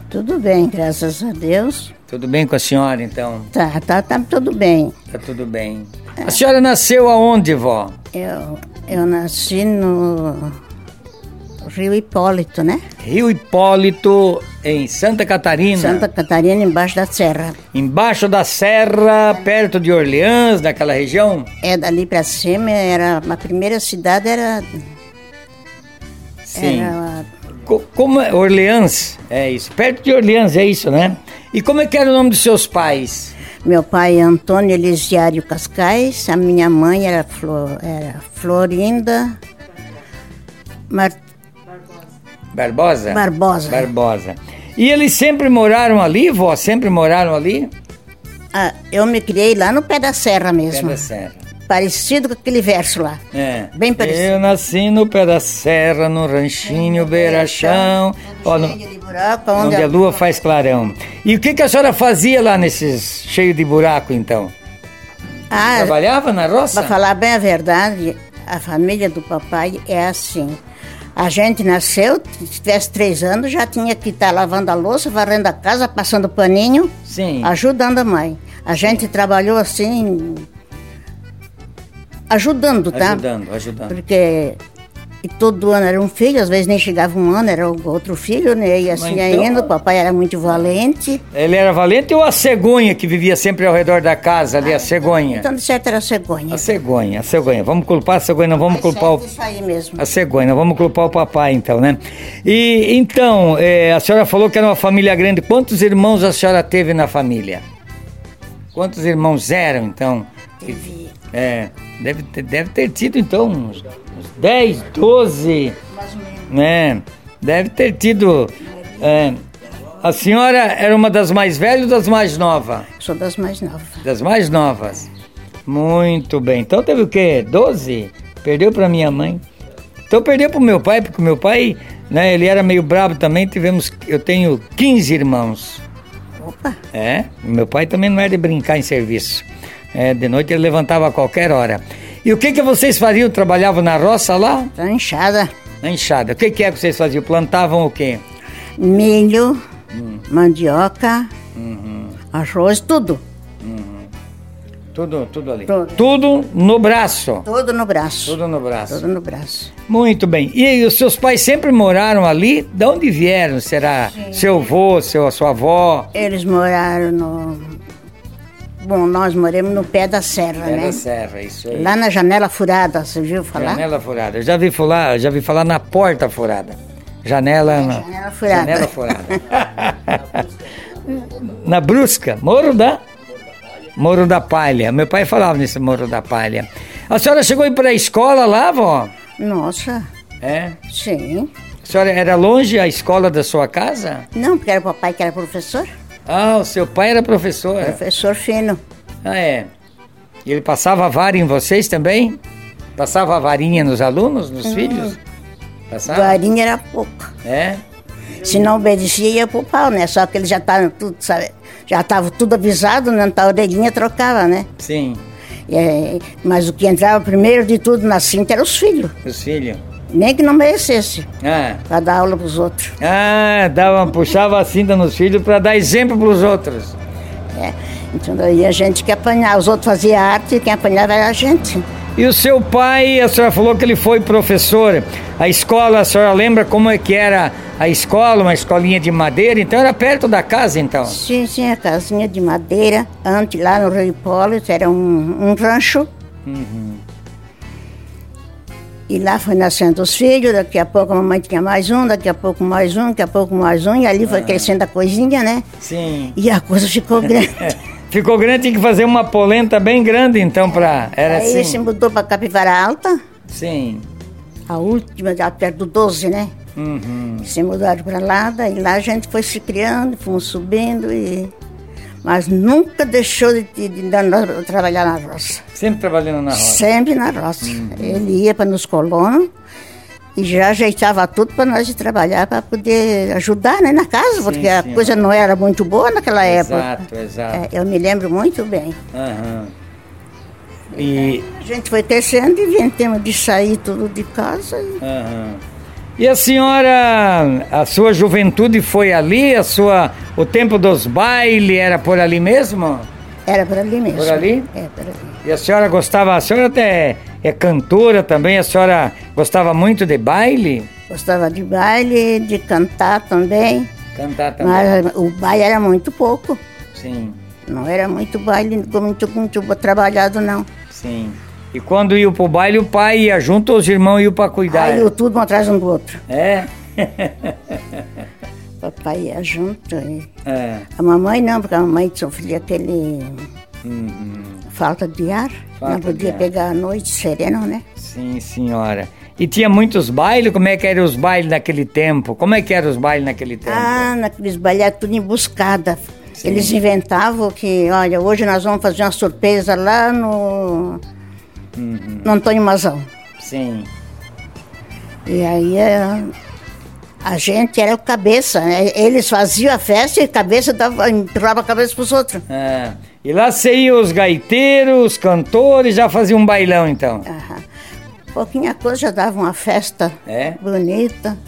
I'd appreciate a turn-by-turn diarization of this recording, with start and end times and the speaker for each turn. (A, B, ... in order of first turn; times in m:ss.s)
0:00.1-0:01.9 A
0:02.1-0:03.5 B
0:03.5-0:05.0 A
0:05.1-0:08.0 B
0:08.1-0:10.6 A
0:11.6-0:12.8 A
0:13.0-0:16.1 B
0:15.7-0:17.6 A
0:17.7-0:21.5 B
0:21.6-0:24.7 A
0:26.4-0:26.9 B
0:26.6-0:27.3 A
0:27.7-0:33.3 B
0:33.6-0:39.4 A
0:40.9-0:41.2 A
0:42.5-0:47.7 B
0:43.1-0:43.9 A
0:48.5-0:51.0 A
0:50.7-0:51.4 B
0:51.7-0:53.2 A
0:53.3-0:58.8 B
0:53.7-0:54.4 A
0:56.6-1:00.2 A
0:59.6-1:04.5 B
1:05.5-1:06.0 A
1:05.6-1:07.0 B
1:06.7-1:10.6 A
1:11.2-1:20.5 A
1:17.1-1:17.5 B
1:22.3-1:23.2 A
1:22.9-1:24.0 B
1:23.9-1:24.6 A
1:25.2-1:31.2 A
1:28.9-1:29.7 B
1:31.3-1:35.5 B
1:34.6-1:36.7 A
1:36.5-1:39.2 B
1:38.6-1:40.0 A
1:40.0-1:47.6 B
1:48.7-1:50.3 B
1:50.6-1:51.1 A
1:51.3-1:55.8 B
1:55.9-1:56.5 A
1:56.5-1:59.4 B
2:00.0-2:02.9 B
2:03.0-2:04.0 A
2:04.0-2:05.1 B
2:05.7-2:09.4 B
2:10.1-2:15.8 B
2:16.4-2:16.8 A
2:16.9-2:24.7 B
2:24.8-2:25.5 A
2:25.8-2:28.2 B
2:28.8-2:29.6 A
2:29.9-2:30.2 B
2:30.3-2:31.3 A
2:31.6-2:32.2 B
2:32.3-2:33.2 A
2:33.6-2:34.1 B
2:34.9-2:37.5 B
2:35.7-2:36.0 A
2:37.4-2:39.7 A
2:38.2-2:39.0 B
2:39.9-2:46.1 B
2:46.1-2:47.8 A
2:48.8-2:51.0 A
2:50.6-2:52.0 B
2:51.7-2:53.8 A
2:53.5-3:00.5 B
2:57.7-2:58.9 A
3:01.2-3:03.0 B
3:04.0-3:09.1 B
3:09.4-3:10.1 A
3:10.4-3:10.8 B
3:10.9-3:11.5 A
3:11.8-3:14.3 B
3:14.4-3:15.9 A
3:16.3-3:18.0 B
3:17.8-3:18.8 A
3:19.2-3:19.7 B
3:20.5-3:22.4 B
3:23.0-3:25.2 B
3:24.6-3:25.2 A
3:25.9-3:26.4 B
3:26.1-3:27.3 A
3:27.4-3:27.8 B
3:28.4-3:34.7 A
3:34.8-3:35.2 B
3:35.7-3:39.2 A
3:39.2-3:39.8 B
3:40.1-3:41.3 A
3:41.4-3:41.8 B
3:41.9-3:43.0 A
3:43.0-3:47.0 B
3:47.5-3:51.8 A
3:52.2-4:01.2 B
4:01.0-4:06.1 A
4:06.5-4:07.0 B
4:09.1-4:15.6 A
4:14.2-4:14.8 B
4:15.8-4:16.4 B
4:16.4-4:17.8 A
4:17.4-4:21.8 B
4:21.0-4:23.2 A
4:23.5-4:24.1 B
4:24.7-4:26.6 A
4:26.8-4:27.5 B
4:27.4-4:31.5 A
4:32.2-4:35.6 A
4:35.8-4:36.8 B
4:36.5-4:39.5 A
4:37.6-4:38.3 B
4:40.4-4:49.0 A
4:44.4-4:45.2 B
4:46.4-4:47.6 B
4:49.1-4:49.7 B
4:50.9-4:55.0 A
4:51.0-4:51.4 B
4:55.0-4:55.6 B
4:56.2-5:03.1 B
5:03.5-5:05.4 A
5:04.1-5:04.7 B
5:05.4-5:10.9 B
5:11.1-5:13.9 A
5:14.2-5:15.0 B
5:14.6-5:16.6 A
5:16.9-5:17.4 B
5:17.7-5:20.7 A
5:20.9-5:25.1 B
5:24.7-5:26.2 A
5:26.3-5:28.0 B
5:28.8-5:30.3 A
5:30.4-5:30.9 B
5:31.0-5:33.5 A
5:33.8-5:34.6 B
5:34.7-5:37.8 A
5:35.8-5:36.5 B
5:38.0-5:44.1 B
5:43.6-5:51.0 A
5:46.4-5:46.8 B
5:51.8-5:52.4 B
5:52.2-5:53.1 A
5:53.4-5:53.9 B
5:55.3-5:56.3 A
5:57.2-6:02.4 A
6:02.5-6:07.3 B
6:07.3-6:07.6 A
6:08.3-6:11.4 A
6:10.3-6:10.6 B